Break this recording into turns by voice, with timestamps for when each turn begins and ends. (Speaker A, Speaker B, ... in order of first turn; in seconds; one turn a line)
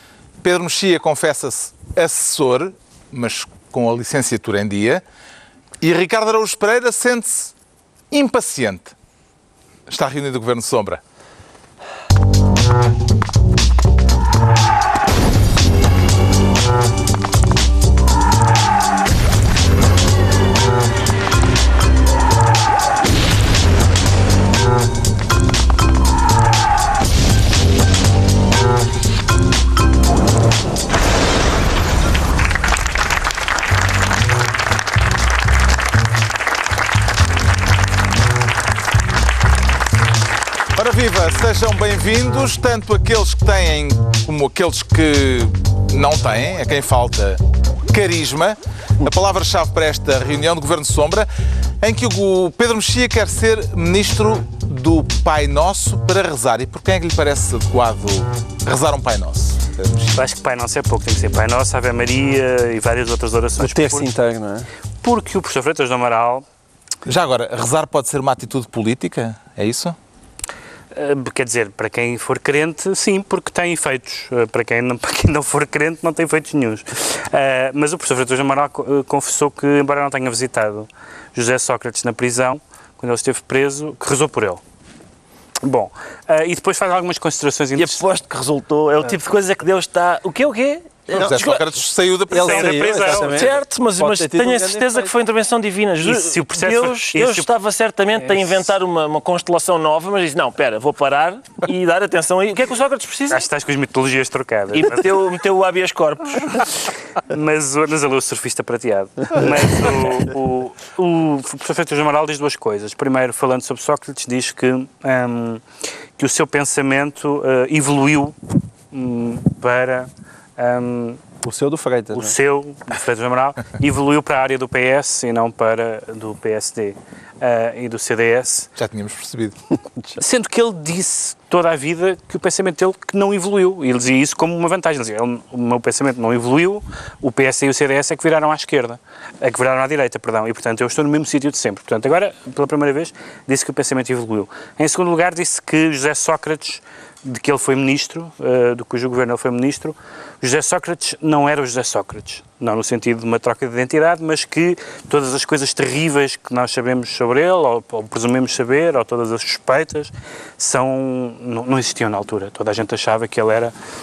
Speaker A: 0.4-5.0
Speaker A: 5.8-7.5
Speaker A: 8.1-8.9
Speaker A: 9.9-11.0
Speaker A: 40.8-51.3
Speaker A: 51.8-60.2
Speaker B: 60.1-64.1
Speaker C: 63.6-64.7
Speaker B: 65.0-66.5
Speaker A: 67.1-70.0
Speaker B: 70.9-84.6
Speaker B: 85.6-88.0
Speaker D: 87.8-91.6
Speaker A: 91.1-93.1
Speaker C: 92.3-95.1
Speaker B: 92.3-93.6
Speaker D: 93.0-103.5
Speaker B: 96.0-97.5
Speaker B: 98.2-98.5
Speaker B: 103.3-105.2
Speaker D: 104.7-106.6
Speaker B: 107.2-115.6
Speaker B: 116.2-118.3
Speaker B: 118.9-121.2
Speaker C: 121.4-122.4
Speaker B: 122.1-128.7
Speaker A: 128.8-129.6
Speaker B: 130.2-163.7